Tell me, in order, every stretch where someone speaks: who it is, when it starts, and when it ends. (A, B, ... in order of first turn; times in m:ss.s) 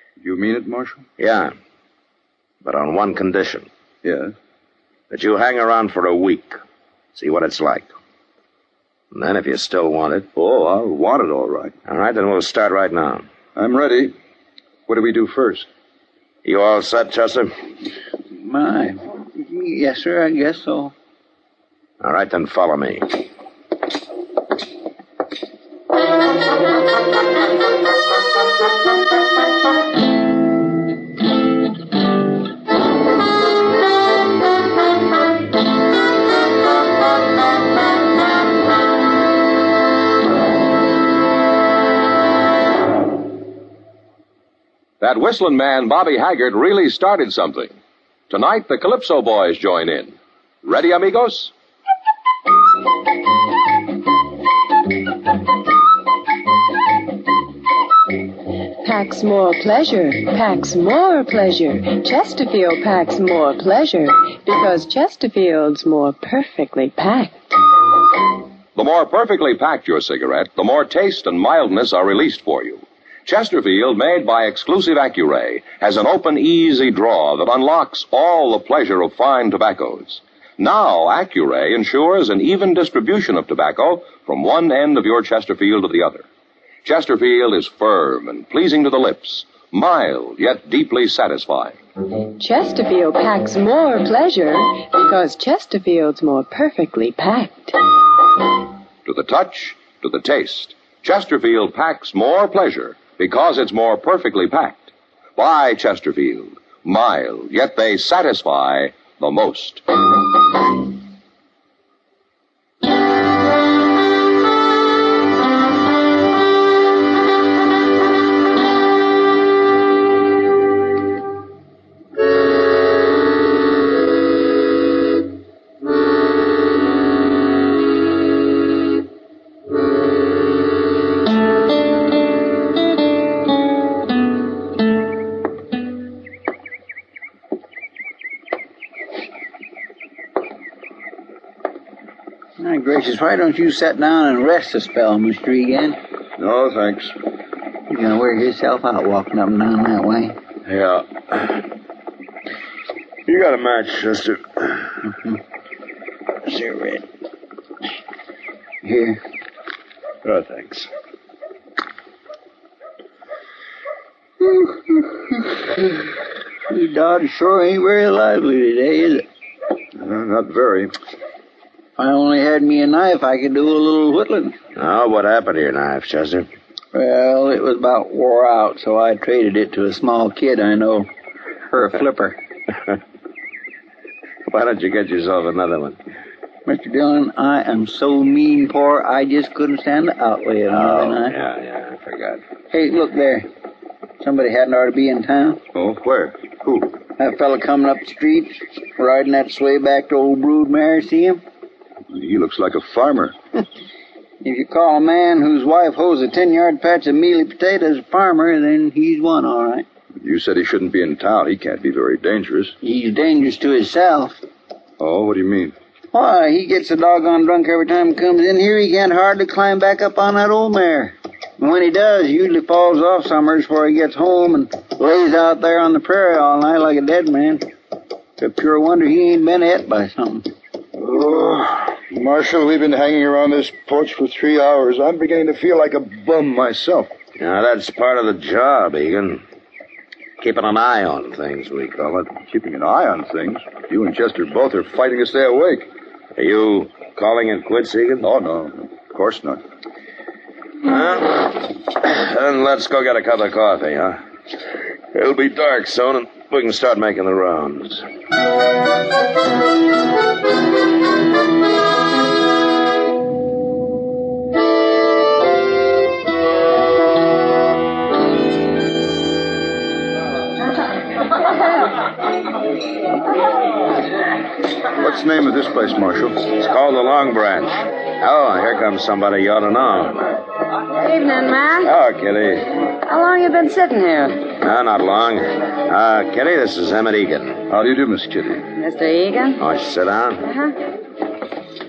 0:00.2-0:01.1 A
0:01.2-0:01.5 B
0:02.6-0:03.7 B
0:04.0-0:04.3 A
0:05.1-0:06.6 B
0:07.1-0:07.9 B
0:09.1-0:10.3 B
0:10.4-0:11.7 A
0:11.8-0:13.2 B
0:13.5-0:14.1 A
0:14.9-0:15.7 A
0:16.4-0:17.5 B
0:18.3-0:20.9 C
0:22.0-0:23.2 B
0:45.0-0:47.8 D
0:48.3-0:51.5 D
0:58.8-1:07.5 E
1:08.8-1:26.2 D
1:26.8-1:31.8 D
1:32.4-1:38.0 E
1:39.0-1:49.8 D
2:22.6-2:26.0 C
2:26.4-2:27.1 A
2:27.9-2:30.4 C
2:30.6-2:31.6 B
2:33.2-2:35.1 B
2:36.4-2:37.0 B
2:38.8-2:39.2 C
2:40.2-2:40.9 B
2:44.4-2:45.4 C
2:46.7-2:49.2 C
2:50.0-2:50.9 A
2:52.0-2:54.5 C
2:54.8-2:56.5 B
2:56.9-3:01.1 C
3:01.7-3:02.4 C
3:04.5-3:06.0 B
3:06.6-3:11.3 C
3:10.7-3:12.4 B
3:12.7-3:13.4 C
3:14.2-3:15.6 C
3:15.7-3:17.0 A
3:17.2-3:21.4 C
3:22.1-3:23.3 A
3:24.4-3:29.8 C
3:30.2-3:32.8 A
3:32.8-3:34.4 C
3:35.0-3:35.7 A
3:36.1-3:47.6 C
3:48.4-3:50.4 C
3:51.0-3:57.1 A
3:57.4-3:59.4 B
4:00.4-4:02.4 B
4:02.5-4:05.9 A
4:06.4-4:08.3 B
4:08.2-4:09.6 A
4:10.8-4:14.2 B
4:15.1-4:18.0 B
4:35.0-4:36.4 A
4:36.5-4:40.4 B
4:41.0-4:41.9 F
4:41.8-4:42.8 B
4:43.0-4:44.4 F
4:44.5-4:47.6 B
4:47.7-4:48.7 A
4:48.8-4:49.6 F
4:49.6-4:50.5 B
4:50.4-4:50.7 F